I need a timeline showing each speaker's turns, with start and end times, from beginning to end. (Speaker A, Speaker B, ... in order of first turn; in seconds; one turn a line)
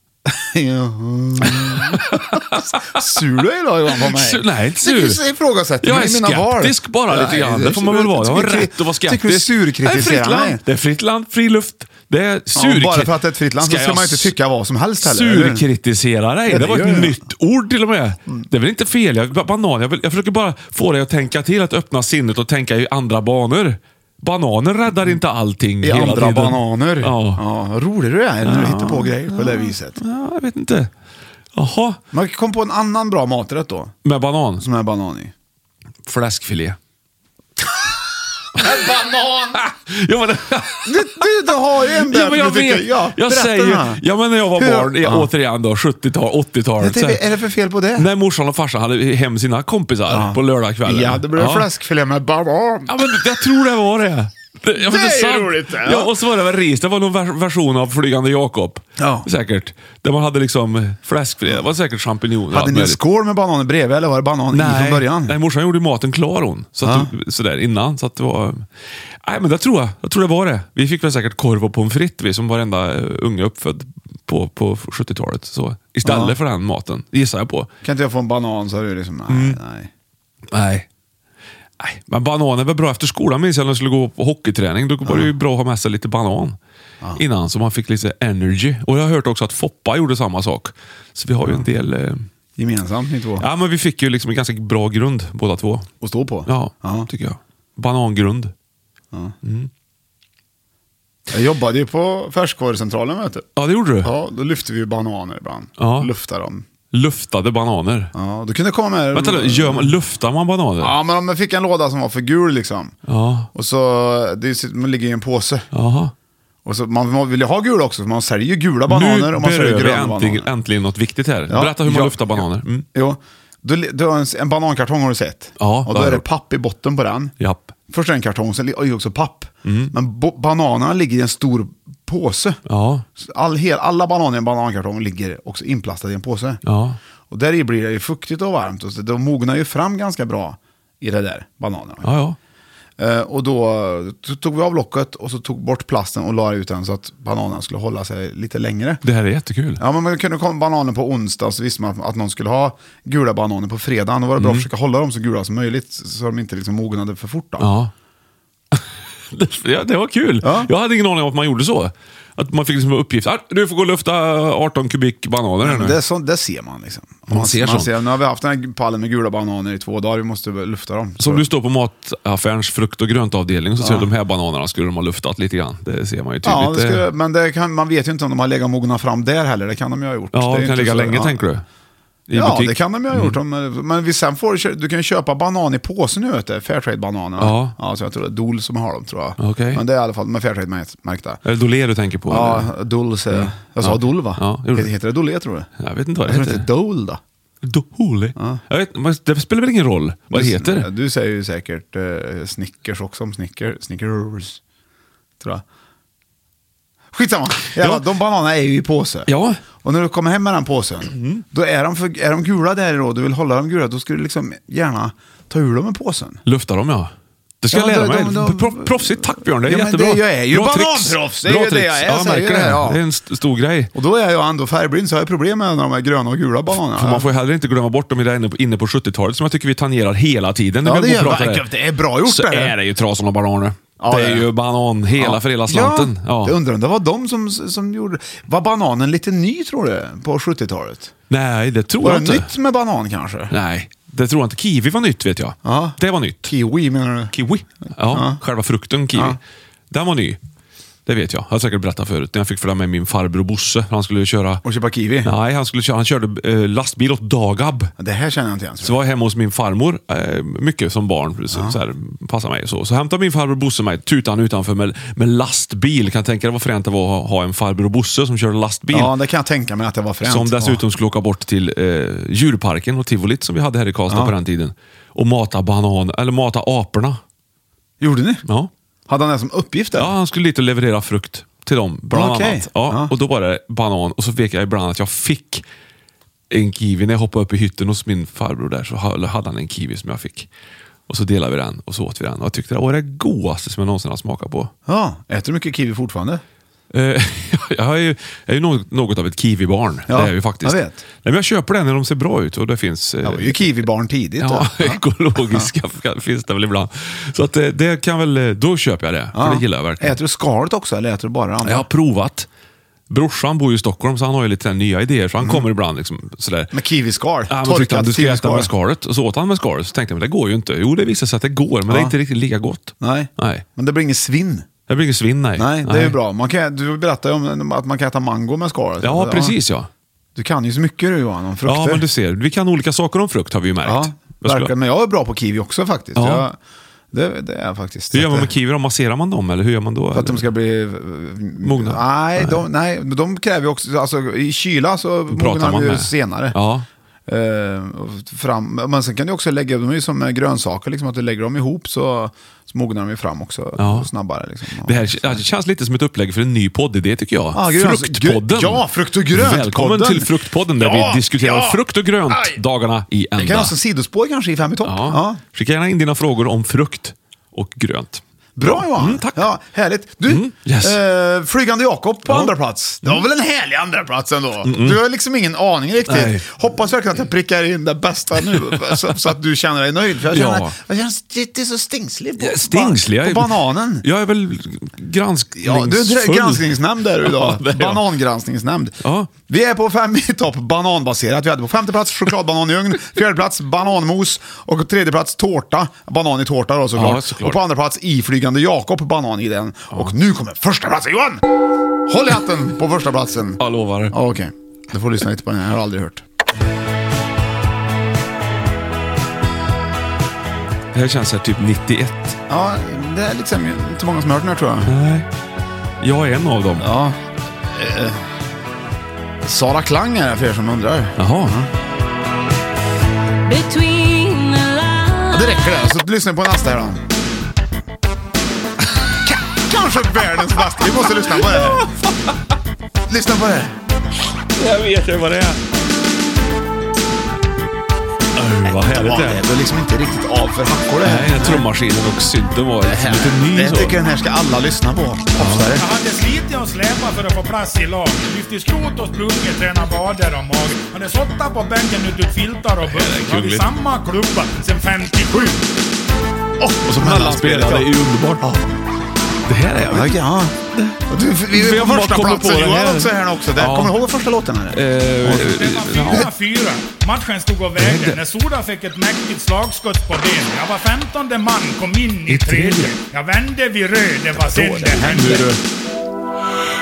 Speaker A: 0.2-10.6
Speaker B: 1.4-3.1
Speaker B: 3.9-5.2
Speaker B: 5.8-14.3
Speaker A: 12.5-15.6
Speaker B: 15.0-27.4
Speaker A: 16.5-17.2
Speaker A: 25.8-30.0
Speaker B: 28.4-30.9
Speaker B: 31.5-32.0
Speaker A: 32.1-33.9
Speaker B: 34.0-34.6
Speaker A: 34.6-35.3
Speaker B: 36.0-36.8
Speaker A: 38.5-39.6
Speaker B: 39.5-41.2
Speaker A: 40.8-44.0
Speaker B: 42.0-47.2
Speaker A: 44.5-45.3
Speaker A: 46.8-48.1
Speaker B: 48.0-51.7
Speaker A: 50.1-52.9
Speaker B: 52.9-63.0
Speaker A: 54.7-56.1
Speaker A: 59.0-59.3
Speaker A: 62.5-65.3
Speaker B: 64.5-68.7
Speaker A: 66.8-67.1
Speaker B: 69.2-77.7
Speaker A: 76.0-76.3
Speaker A: 77.8-79.9
Speaker B: 79.3-79.6
Speaker B: 80.5-80.9
Speaker B: 81.8-86.6
Speaker A: 85.0-85.3
Speaker B: 87.1-92.2
Speaker A: 92.6-93.5
Speaker B: 93.4-95.9
Speaker A: 96.0-97.1
Speaker B: 96.5-98.5
Speaker B: 99.4-99.7
Speaker A: 101.3-103.5
Speaker B: 103.5-104.1
Speaker A: 104.0-106.7
Speaker B: 105.8-106.1
Speaker B: 106.9-108.1
Speaker A: 108.1-109.9
Speaker B: 109.1-110.9
Speaker A: 110.8-113.0
Speaker B: 113.0-113.5
Speaker A: 113.5-115.7
Speaker B: 115.7-116.1
Speaker A: 116.6-120.5
Speaker B: 118.9-122.9
Speaker A: 121.5-127.3
Speaker B: 125.6-126.2
Speaker B: 127.4-127.7
Speaker A: 127.9-132.6
Speaker B: 129.6-129.9
Speaker B: 132.7-133.1
Speaker A: 133.2-136.6
Speaker B: 136.6-137.0
Speaker A: 137.3-142.1
Speaker B: 142.0-142.4
Speaker A: 143.0-149.0
Speaker B: 149.0-149.8
Speaker A: 149.8-157.7
Speaker B: 154.4-154.7
Speaker B: 157.6-157.9
Speaker B: 158.7-166.0
Speaker A: 160.4-160.7
Speaker A: 165.6-171.4
Speaker B: 167.3-167.9
Speaker B: 171.2-177.0
Speaker A: 173.8-174.1
Speaker A: 176.4-181.4
Speaker B: 180.3-181.6
Speaker B: 182.3-183.4
Speaker A: 182.3-191.4
Speaker B: 187.4-187.7
Speaker B: 189.4-189.8
Speaker B: 191.4-192.7
Speaker A: 192.3-195.7
Speaker B: 193.3-194.9
Speaker B: 195.8-196.7
Speaker A: 196.2-197.2
Speaker B: 197.6-200.9
Speaker A: 198.3-198.6
Speaker A: 200.3-204.6
Speaker A: 207.1-216.4
Speaker B: 207.8-208.0
Speaker B: 209.3-209.6
Speaker B: 211.1-211.4
Speaker B: 216.4-223.9
Speaker A: 217.7-223.0
Speaker A: 223.9-227.3
Speaker B: 226.9-231.7
Speaker A: 230.8-232.7
Speaker B: 232.2-236.5
Speaker A: 234.0-234.5
Speaker A: 235.2-241.1
Speaker B: 241.3-242.5
Speaker A: 242.0-243.5
Speaker B: 243.5-246.5
Speaker A: 245.6-247.3
Speaker B: 247.3-249.4
Speaker A: 248.1-248.4
Speaker B: 249.9-250.4
Speaker B: 251.1-254.6
Speaker A: 254.6-255.3
Speaker B: 255.2-257.9
Speaker A: 258.0-259.0
Speaker B: 258.8-269.1
Speaker A: 261.5-261.8
Speaker A: 268.9-270.8
Speaker B: 270.2-277.2
Speaker A: 274.1-274.3
Speaker A: 278.0-278.4
Speaker B: 278.4-278.7
Speaker A: 279.1-280.1
Speaker B: 279.9-285.6
Speaker A: 282.1-283.1
Speaker B: 286.5-290.5
Speaker B: 291.1-294.7
Speaker A: 294.9-296.4
Speaker B: 296.9-303.8
Speaker A: 300.1-301.0
Speaker A: 303.2-305.7
Speaker B: 304.4-310.2
Speaker A: 309.3-311.9
Speaker B: 311.6-312.5
Speaker B: 313.1-316.7
Speaker A: 315.4-315.6
Speaker A: 316.7-318.7
Speaker B: 317.5-323.6
Speaker A: 321.9-322.1
Speaker A: 323.0-324.7
Speaker B: 324.9-326.2
Speaker A: 325.6-329.5
Speaker B: 329.0-329.9
Speaker A: 330.3-332.0
Speaker B: 331.6-334.7
Speaker A: 333.8-336.6
Speaker B: 336.1-336.4
Speaker A: 337.1-338.5
Speaker B: 338.1-340.4
Speaker A: 340.1-346.6
Speaker B: 341.6-342.6
Speaker B: 345.3-346.9
Speaker A: 347.3-355.4
Speaker B: 353.8-354.1
Speaker B: 354.8-363.7
Speaker A: 357.5-362.6
Speaker A: 363.4-365.4
Speaker B: 364.8-369.5
Speaker A: 368.6-384.1
Speaker B: 370.3-371.0
Speaker B: 372.3-372.5
Speaker B: 374.6-375.0
Speaker B: 376.1-376.4
Speaker B: 378.7-379.0
Speaker B: 380.3-380.7
Speaker B: 382.4-388.1
Speaker A: 385.6-401.4
Speaker B: 389.0-389.3
Speaker B: 396.9-397.6
Speaker A: 402.1-406.2
Speaker B: 403.6-404.1
Speaker B: 410.9-412.4
Speaker A: 412.5-414.9
Speaker B: 414.9-415.2
Speaker B: 416.0-416.9
Speaker A: 416.8-418.2
Speaker A: 419.4-421.7
Speaker B: 421.2-421.6
Speaker A: 425.3-427.0
Speaker A: 429.2-431.9
Speaker B: 431.1-431.9
Speaker A: 433.1-433.8
Speaker B: 434.5-435.6
Speaker B: 438.3-439.4
Speaker A: 438.6-441.7
Speaker B: 441.0-444.0
Speaker A: 442.8-445.9
Speaker B: 445.4-445.8
Speaker C: 445.8-455.6
Speaker B: 452.8-453.7
Speaker A: 456.6-458.7
Speaker B: 456.8-458.5
Speaker B: 459.5-460.2
Speaker A: 459.9-460.6
Speaker A: 461.1-465.6
Speaker B: 461.5-464.0
Speaker B: 464.7-466.3
Speaker C: 465.3-475.5
Speaker B: 467.8-468.2
Speaker B: 472.3-472.9
Speaker B: 474.4-475.6
Speaker A: 474.5-475.4